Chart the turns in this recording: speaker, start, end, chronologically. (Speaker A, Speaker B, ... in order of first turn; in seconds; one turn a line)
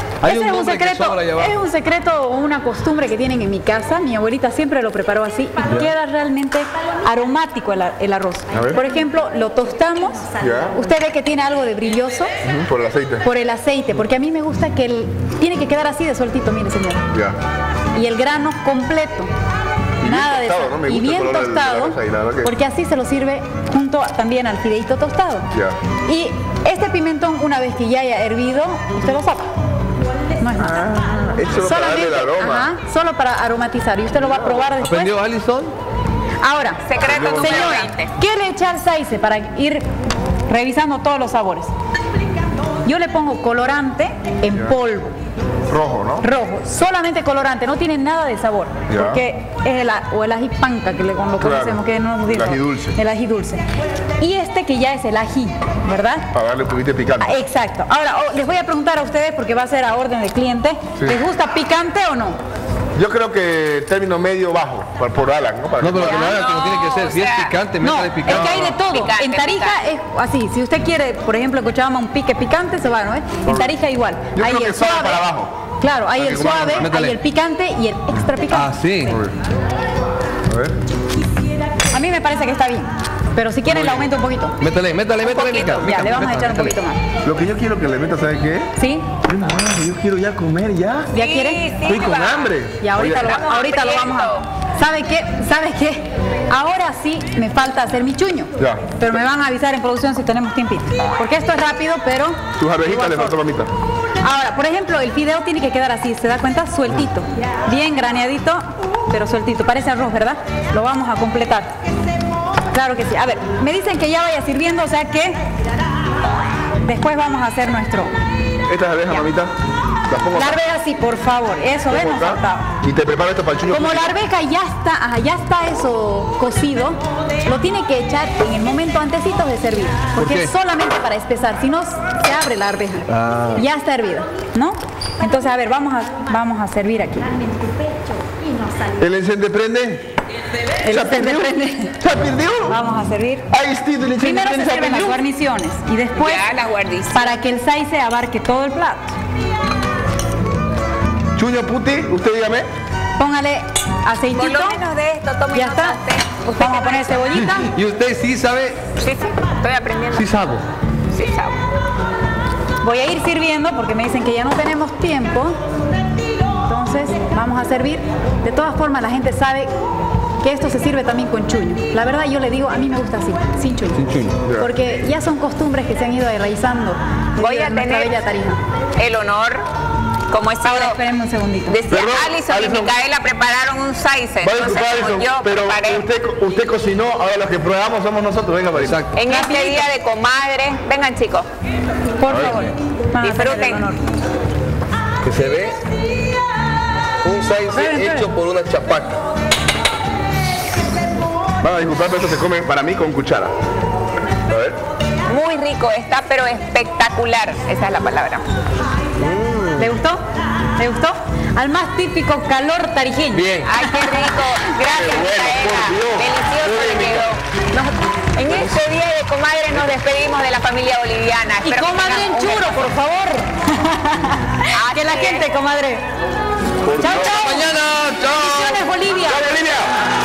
Speaker A: 0.2-1.5
Speaker B: 0.2-12.3
Speaker C: 8.5-8.8
Speaker C: 10.4-10.8
Speaker C: 12.4-13.2
Speaker B: 13.2-17.1
Speaker C: 17.1-17.4
Speaker B: 17.9-19.3
Speaker C: 20.0-22.5
Speaker B: 20.0-25.5
Speaker C: 25.5-25.8
Speaker B: 26.1-29.5
Speaker B: 30.4-30.8
Speaker C: 30.6-32.7
Speaker B: 31.6-35.1
Speaker C: 34.2-34.7
Speaker A: 34.8-35.8
Speaker B: 36.4-39.9
Speaker D: 36.9-38.1
Speaker C: 37.0-37.7
Speaker B: 40.5-41.7
Speaker B: 42.9-45.2
Speaker C: 45.7-46.3
Speaker B: 46.2-53.6
Speaker C: 48.9-49.2
Speaker C: 51.4-53.0
Speaker B: 54.2-56.3
Speaker C: 56.3-57.4
Speaker B: 57.2-62.4
Speaker C: 63.0-66.4
Speaker A: 65.8-68.7
Speaker D: 66.0-67.6
Speaker B: 67.8-75.2
Speaker D: 68.2-69.8
Speaker C: 74.3-75.5
Speaker B: 75.8-79.2
Speaker C: 76.1-76.9
Speaker A: 76.7-77.2
Speaker A: 78.5-79.2
Speaker C: 79.1-79.3
Speaker C: 80.5-80.8
Speaker B: 81.9-84.6
Speaker A: 83.7-86.8
Speaker D: 85.2-86.0
Speaker B: 85.8-87.0
Speaker C: 87.2-91.1
Speaker B: 88.8-89.1
Speaker B: 91.1-91.6
Speaker D: 91.1-94.5
Speaker C: 91.8-93.3
Speaker B: 92.8-103.4
Speaker C: 98.6-99.0
Speaker C: 102.6-103.7
Speaker B: 104.2-111.7
Speaker B: 112.7-115.4
Speaker B: 116.8-118.1
Speaker C: 118.7-119.5
Speaker C: 120.1-120.6
Speaker B: 120.3-122.7
Speaker C: 121.9-124.1
Speaker B: 123.7-137.4
Speaker A: 130.2-130.5
Speaker A: 133.1-133.6
Speaker C: 139.0-140.1
Speaker B: 140.8-142.0
Speaker C: 140.9-142.8
Speaker B: 142.7-143.5
Speaker C: 143.5-145.2
Speaker B: 144.2-146.4
Speaker D: 146.1-147.3
Speaker B: 147.1-149.2
Speaker C: 151.4-152.7
Speaker B: 153.2-154.8
Speaker D: 154.4-157.4
Speaker B: 155.5-156.0
Speaker B: 156.6-157.7
Speaker A: 157.6-158.9
Speaker D: 159.0-160.3
Speaker A: 160.1-160.6
Speaker D: 161.1-161.6
Speaker B: 162.8-165.6
Speaker B: 166.6-169.7
Speaker B: 170.4-174.0
Speaker A: 174.0-174.3
Speaker C: 174.3-174.7
Speaker B: 174.6-178.6
Speaker D: 177.4-178.2
Speaker D: 179.0-179.6
Speaker D: 180.3-181.0
Speaker B: 180.6-181.8
Speaker D: 181.7-186.0
Speaker C: 181.9-183.0
Speaker C: 184.4-189.0
Speaker A: 188.8-189.2
Speaker D: 189.1-191.5
Speaker B: 189.3-189.9
Speaker B: 192.2-194.0
Speaker A: 192.3-192.7
Speaker D: 193.2-193.9
Speaker A: 195.2-195.8
Speaker A: 197.2-199.2
Speaker B: 197.7-198.3
Speaker C: 201.6-203.6
Speaker C: 204.5-204.8
Speaker D: 205.3-208.4
Speaker A: 209.2-209.9
Speaker B: 209.8-210.2
Speaker B: 210.8-214.5
Speaker A: 213.3-213.7
Speaker D: 213.6-217.4
Speaker C: 214.8-217.4
Speaker D: 218.3-222.8
Speaker B: 221.6-226.0
Speaker D: 224.7-225.4
Speaker C: 226.8-227.6
Speaker B: 227.0-227.6
Speaker A: 227.1-228.8
Speaker B: 228.3-229.5
Speaker C: 229.2-229.9